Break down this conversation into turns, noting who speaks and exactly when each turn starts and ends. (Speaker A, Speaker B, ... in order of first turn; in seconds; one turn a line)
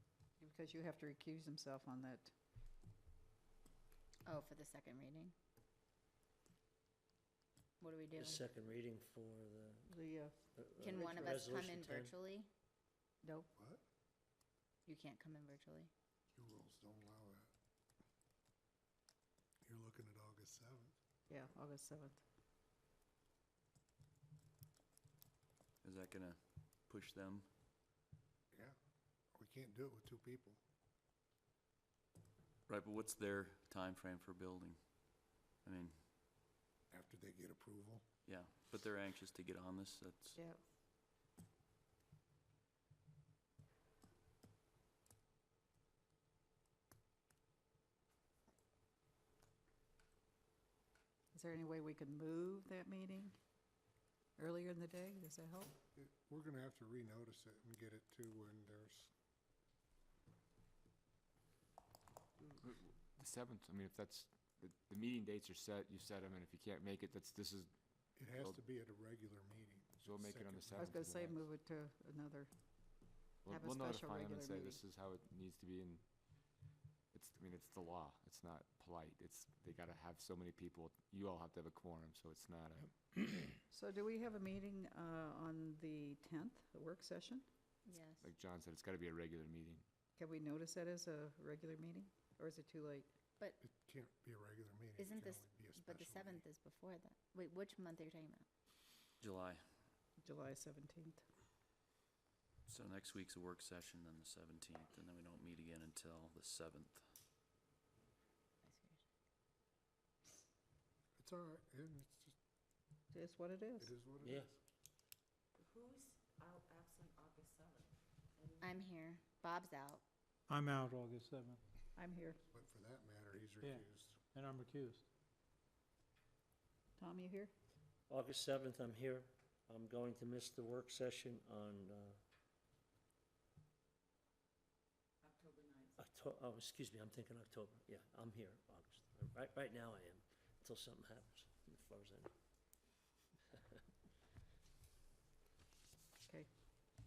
Speaker A: 0.4-2.3
Speaker B: 4.2-5.3
Speaker B: 7.8-8.4
Speaker C: 8.1-9.9
Speaker A: 9.9-10.3
Speaker C: 10.5-12.2
Speaker B: 10.8-12.5
Speaker A: 13.2-13.5
Speaker D: 13.6-13.8
Speaker B: 14.8-15.9
Speaker D: 16.3-17.5
Speaker D: 19.6-20.9
Speaker A: 21.3-22.2
Speaker E: 25.8-27.5
Speaker D: 29.3-30.6
Speaker E: 32.7-34.8
Speaker E: 35.6-36.0
Speaker D: 36.9-38.0
Speaker E: 38.2-40.4
Speaker A: 40.4-40.6
Speaker A: 51.3-53.4
Speaker A: 54.4-55.7
Speaker D: 56.0-59.1
Speaker F: 62.6-67.7
Speaker D: 68.2-70.9
Speaker F: 68.3-68.6
Speaker F: 70.0-71.4
Speaker A: 70.8-72.5
Speaker F: 73.4-76.0
Speaker A: 73.5-74.8
Speaker F: 77.1-83.5
Speaker A: 83.7-87.4
Speaker B: 87.8-88.3
Speaker F: 88.2-89.8
Speaker A: 90.2-93.1
Speaker D: 93.6-96.4
Speaker B: 95.0-98.5
Speaker E: 99.2-99.6
Speaker A: 100.2-101.2
Speaker E: 102.7-107.1
Speaker B: 108.6-109.0
Speaker D: 111.2-112.3
Speaker A: 113.1-113.9
Speaker D: 113.8-114.6
Speaker C: 114.2-114.5
Speaker B: 118.6-120.0
Speaker G: 120.5-121.6
Speaker A: 122.0-122.4
Speaker D: 122.5-124.2
Speaker G: 123.6-125.0
Speaker A: 127.0-127.5
Speaker C: 128.1-132.2
Speaker C: 135.9-142.3